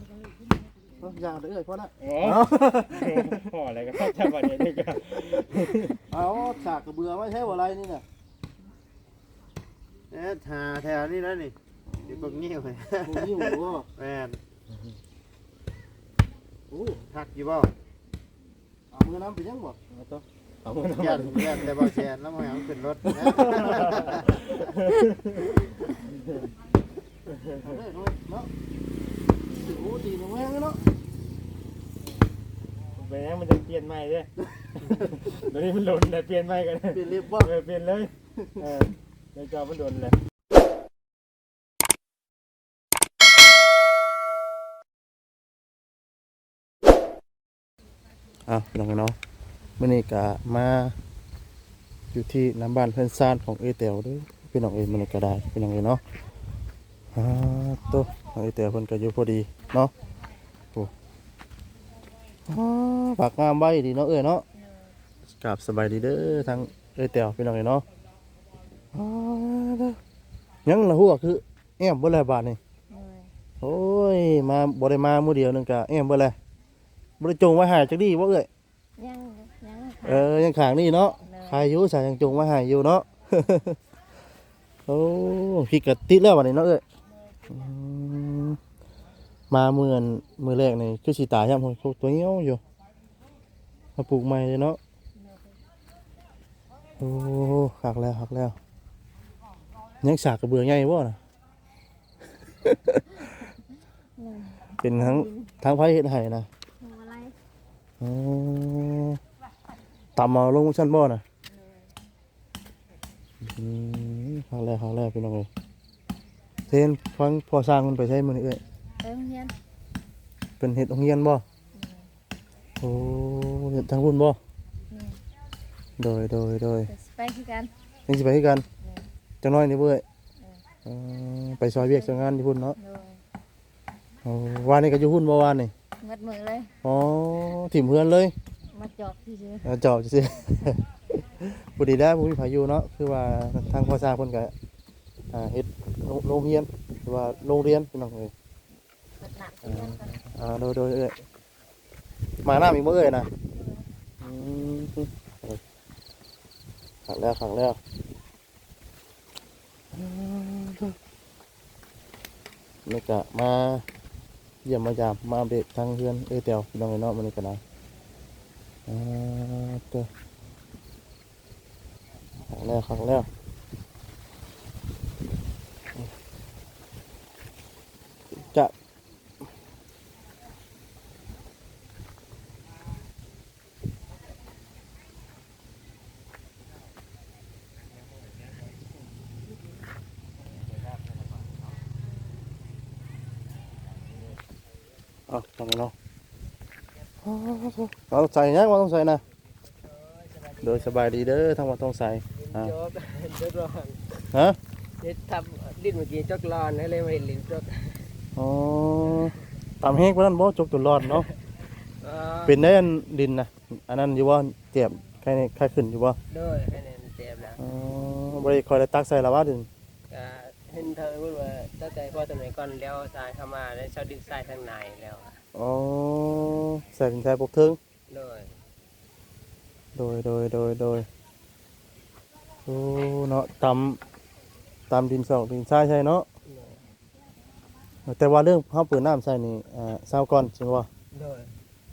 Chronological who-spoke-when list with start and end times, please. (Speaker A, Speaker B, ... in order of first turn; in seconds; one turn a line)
Speaker A: 1.0-3.4
Speaker B: 2.0-6.0
Speaker A: 6.1-8.0
Speaker C: 10.1-11.6
Speaker A: 11.9-12.4
Speaker C: 12.1-14.4
Speaker A: 13.0-13.9
Speaker A: 16.7-17.0
Speaker C: 17.1-17.7
Speaker A: 18.9-19.8
Speaker B: 19.9-21.9
Speaker C: 20.8-24.5
Speaker B: 23.2-25.5
Speaker B: 26.1-26.4
Speaker B: 27.3-27.8
Speaker A: 27.6-28.5
Speaker B: 28.9-29.2
Speaker A: 29.5-30.8
Speaker B: 33.0-34.3
Speaker B: 34.9-40.2
Speaker A: 36.9-37.5
Speaker A: 48.5-49.2
Speaker A: 49.8-51.0
Speaker A: 52.1-56.0
Speaker A: 57.1-59.9
Speaker A: 62.5-64.5
Speaker D: 64.5-64.9
Speaker A: 65.3-67.8
Speaker A: 68.9-70.0
Speaker A: 70.7-72.6
Speaker D: 72.9-73.3
Speaker A: 73.6-76.4
Speaker A: 77.2-78.5
Speaker D: 79.0-80.4
Speaker A: 80.0-83.8
Speaker D: 81.2-81.7
Speaker A: 84.9-86.8
Speaker D: 87.1-87.7
Speaker A: 87.5-88.6
Speaker A: 89.5-92.6
Speaker A: 94.0-94.8
Speaker D: 95.1-95.6
Speaker A: 97.0-98.6
Speaker A: 100.0-101.2
Speaker A: 102.7-103.0
Speaker D: 104.2-105.5
Speaker A: 104.8-106.5
Speaker D: 106.8-107.3
Speaker A: 108.0-109.2
Speaker A: 110.2-111.2
Speaker D: 111.5-111.9
Speaker A: 113.4-115.5
Speaker A: 116.7-118.6
Speaker D: 119.0-119.5
Speaker A: 120.6-121.4
Speaker D: 121.7-122.1
Speaker A: 122.8-124.4
Speaker D: 124.9-125.2
Speaker A: 126.0-126.9
Speaker D: 126.9-127.7
Speaker A: 128.1-128.7
Speaker A: 129.4-130.0
Speaker A: 130.8-132.8
Speaker D: 131.7-133.2
Speaker A: 134.2-135.7
Speaker D: 136.0-136.7
Speaker A: 136.8-138.3
Speaker D: 138.7-139.7
Speaker A: 139.6-140.8
Speaker A: 141.4-144.5
Speaker A: 145.3-148.3
Speaker D: 149.3-150.2
Speaker B: 149.6-150.2
Speaker A: 150.3-151.2
Speaker A: 152.4-153.3
Speaker A: 154.2-155.6
Speaker A: 157.1-157.8
Speaker A: 159.9-161.0
Speaker A: 162.9-163.8
Speaker A: 164.7-167.6
Speaker A: 168.9-170.1
Speaker A: 172.5-173.3
Speaker A: 178.3-178.7
Speaker A: 195.3-195.9
Speaker A: 197.2-199.2
Speaker E: 199.8-201.1
Speaker A: 200.6-202.7
Speaker E: 202.3-204.2
Speaker A: 204.3-204.6
Speaker E: 205.0-208.1
Speaker A: 208.4-211.3
Speaker E: 211.1-211.3
Speaker E: 211.9-212.6
Speaker A: 212.5-216.2
Speaker E: 216.3-217.6
Speaker A: 217.6-219.7
Speaker E: 220.1-225.4
Speaker A: 225.5-227.8
Speaker E: 228.1-228.5
Speaker A: 229.9-231.1
Speaker A: 232.7-234.0
Speaker A: 234.9-236.3
Speaker E: 236.4-236.8
Speaker A: 238.1-240.9
Speaker E: 241.1-241.5